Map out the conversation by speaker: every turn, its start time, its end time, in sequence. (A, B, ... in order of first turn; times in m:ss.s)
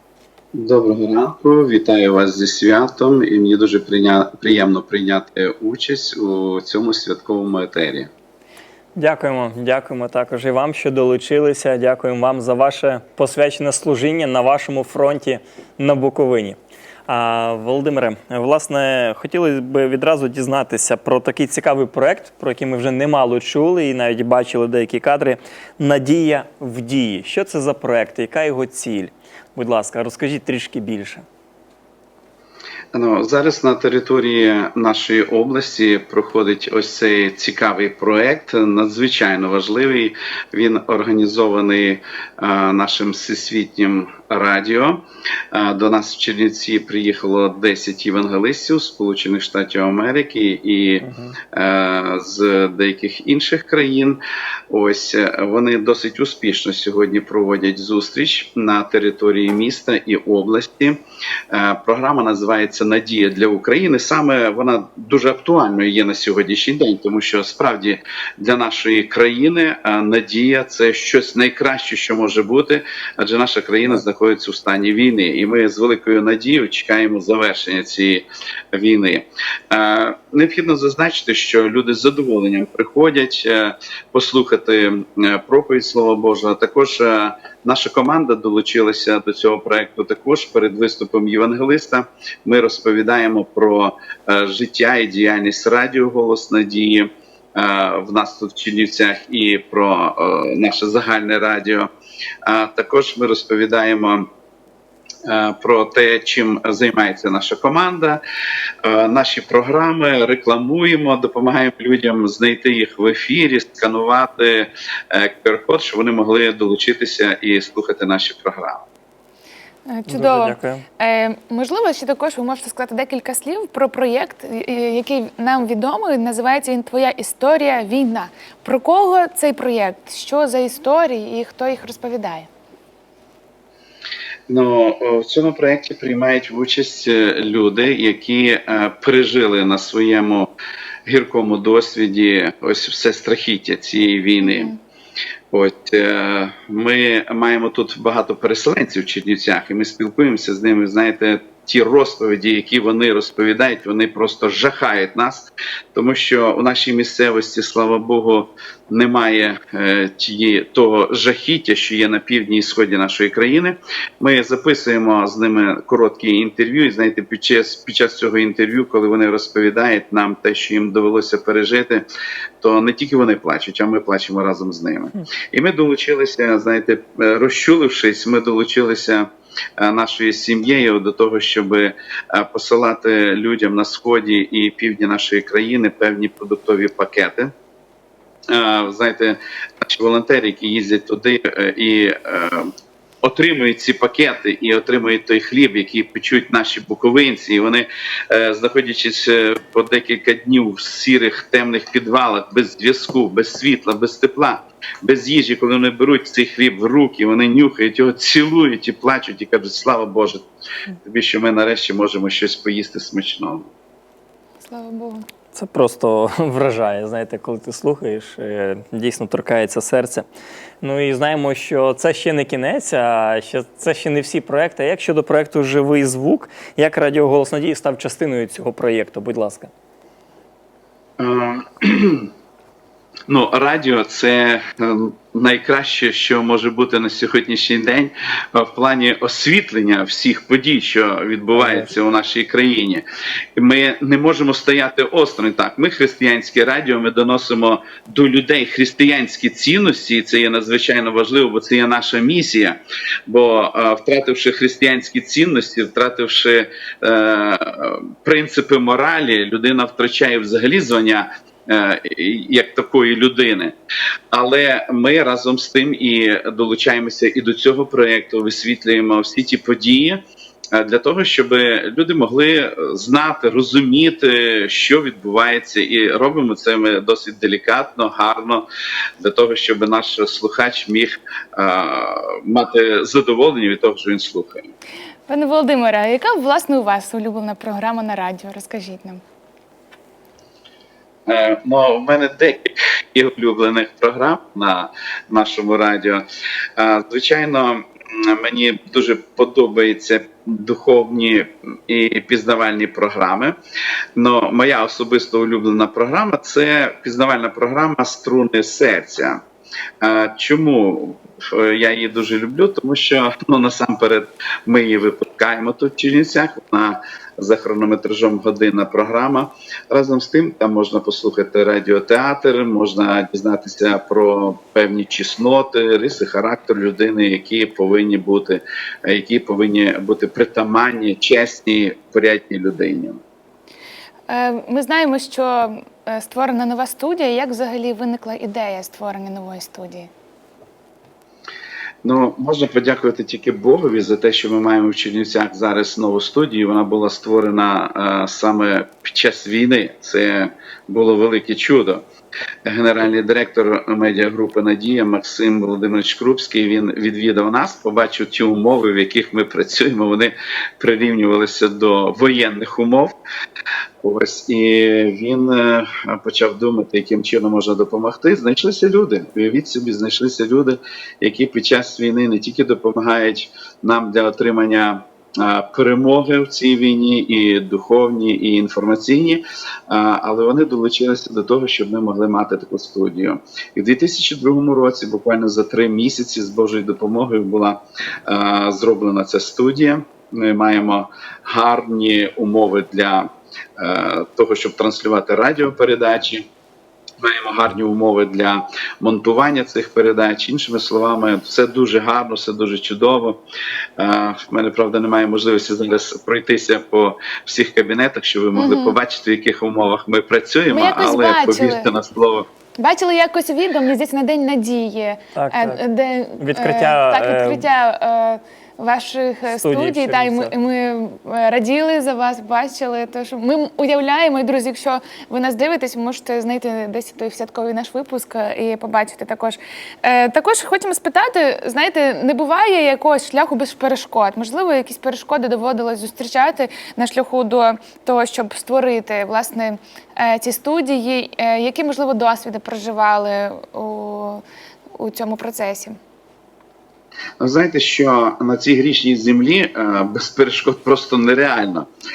0:00.5-0:08.1 A
0:09.0-0:31.2 B
0:32.9-0:54.2 A
0:51.0-0:51.4 B
0:54.7-1:41.9 A
1:42.4-1:44.3 A
1:45.2-1:48.2 A
1:48.8-1:58.8 A
1:59.8-2:12.5 C
2:00.1-2:00.8 B
2:14.5-2:20.5 A
2:21.0-2:24.7 A
2:24.4-2:24.8 C
2:25.5-2:52.0 A
2:52.6-3:07.5 A
3:08.5-3:30.4 A
3:31.0-3:33.7 A
3:34.6-3:35.2 C
3:35.5-3:40.2 B
3:40.8-3:49.7 B
3:51.2-3:52.3 A
3:53.3-4:03.0 A
4:01.5-4:01.9 B
4:03.6-4:23.7 A
4:24.3-4:30.2 A
4:30.7-4:38.6 A
4:39.2-4:44.7 A
4:45.3-4:49.2 C
4:51.3-4:56.2 A
4:56.8-5:03.6 A
5:04.2-5:09.4 A
5:10.0-5:33.2 A
5:34.3-5:40.1 C
5:42.0-5:52.0 A
5:52.6-6:03.1 A
6:04.0-6:36.4 A
6:37.2-6:43.4 A
6:44.0-6:52.5 A
6:48.5-6:49.0 C
6:50.7-6:51.9 C
6:52.8-7:24.4 C
6:55.3-6:55.8 B
6:56.4-6:57.6 B
6:59.6-7:00.5 B
7:25.0-7:26.0 C
7:27.4-7:31.9 A